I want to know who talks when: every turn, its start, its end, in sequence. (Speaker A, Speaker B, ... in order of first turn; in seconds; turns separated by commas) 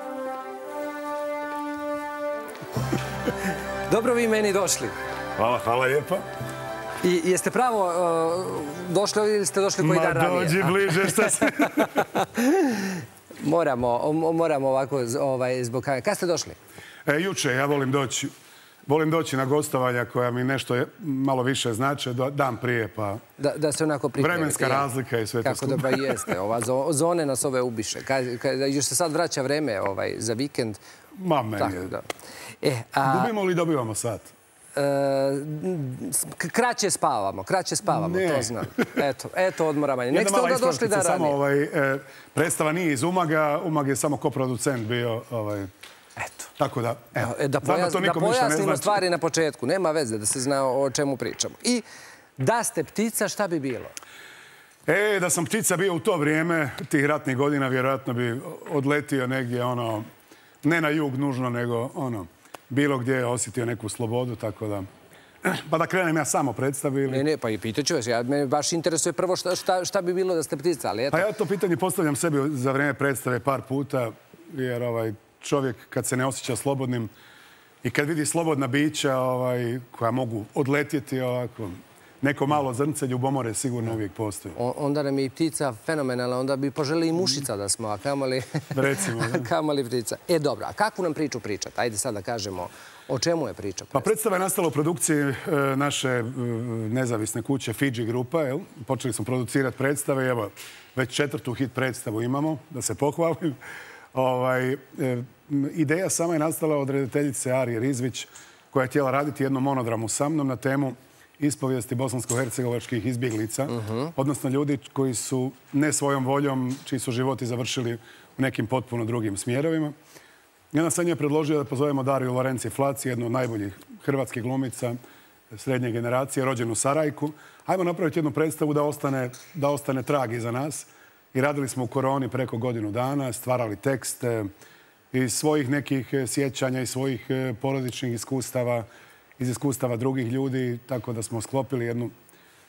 Speaker A: 3.9-4.9, Speaker B: 5.3-6.2, Speaker A: 7.0-16.6, Speaker B: 9.8-12.1, Speaker B: 17.1-18.3, Speaker B: 18.9-23.2, Speaker A: 23.4-24.9, Speaker B: 24.2-26.3, Speaker A: 25.4-30.8, Speaker B: 31.2-32.0, Speaker A: 31.6-32.0, Speaker A: 32.6-33.3, Speaker B: 33.0-34.3, Speaker A: 34.7-41.4, Speaker B: 37.9-39.0, Speaker B: 40.1-45.7, Speaker A: 46.2-46.5, Speaker B: 46.6-49.0, Speaker A: 47.2-51.8, Speaker A: 52.4-53.9, Speaker B: 54.9-60.1, Speaker B: 60.6-64.8, Speaker B: 65.4-67.2, Speaker A: 67.1-71.3, Speaker B: 71.1-77.1, Speaker B: 77.8-84.5, Speaker A: 84.5-94.1, Speaker B: 88.7-89.5, Speaker B: 93.9-103.6, Speaker B: 104.1-119.9, Speaker A: 113.7-114.1, Speaker B: 120.7-125.0, Speaker B: 125.5-134.5, Speaker B: 135.1-138.8, Speaker B: 139.4-142.1